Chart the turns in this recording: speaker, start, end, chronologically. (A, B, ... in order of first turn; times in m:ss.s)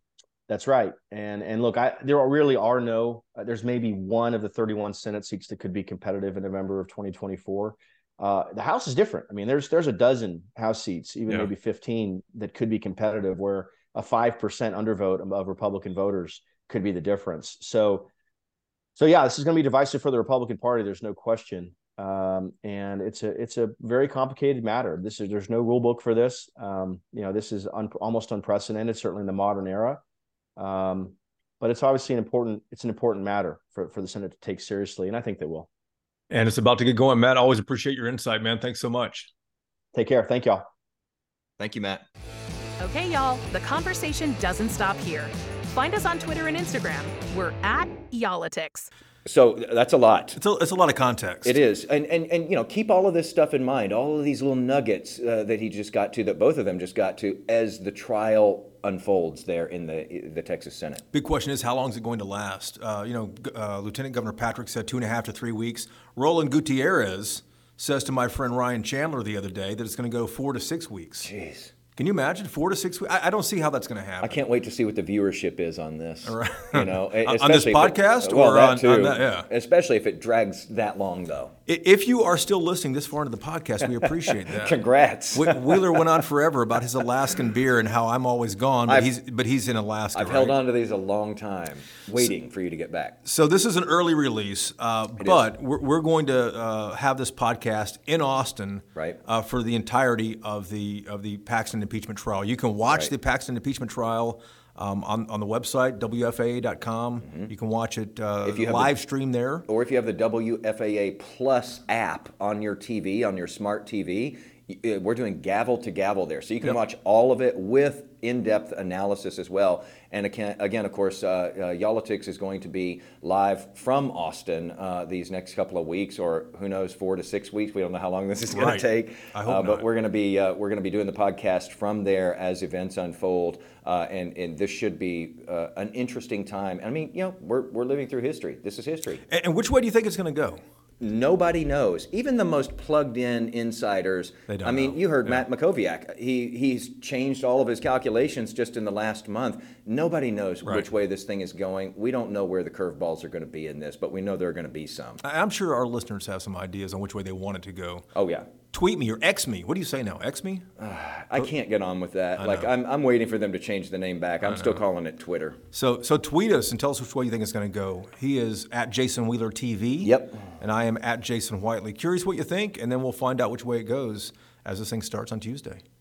0:00.5-0:18.1 A
0:19.0-0:30.0 A
0:30.6-0:35.7 A
0:36.3-0:39.3 B
0:39.9-0:40.7 A
0:41.6-0:42.0 C
0:42.8-0:48.9 D
0:49.2-0:50.4 C
0:50.3-0:51.6 B
0:51.4-1:01.0 C
1:01.1-1:11.3 B
1:11.3-1:11.7 C
1:12.0-1:14.4 B
1:14.2-1:21.5 C
1:16.2-1:19.5 B
1:21.7-1:24.8 B
1:24.0-1:26.1 C
1:25.3-1:30.6 B
1:30.1-1:33.2 C
1:33.2-1:49.7 B
1:35.2-1:35.4 C
1:42.9-1:43.1 C
1:48.4-1:48.9 C
1:49.7-2:19.2 C
2:08.5-2:09.8 B
2:19.3-2:20.6 B
2:21.0-2:35.2 C
2:24.5-2:25.4 B
2:35.2-2:38.1 B
2:38.2-2:38.5 C
2:38.7-2:40.7 B
2:40.8-2:45.6 C
2:42.4-2:42.7 B
2:44.4-2:44.8 B
2:45.7-2:55.8 B
2:50.0-2:50.5 C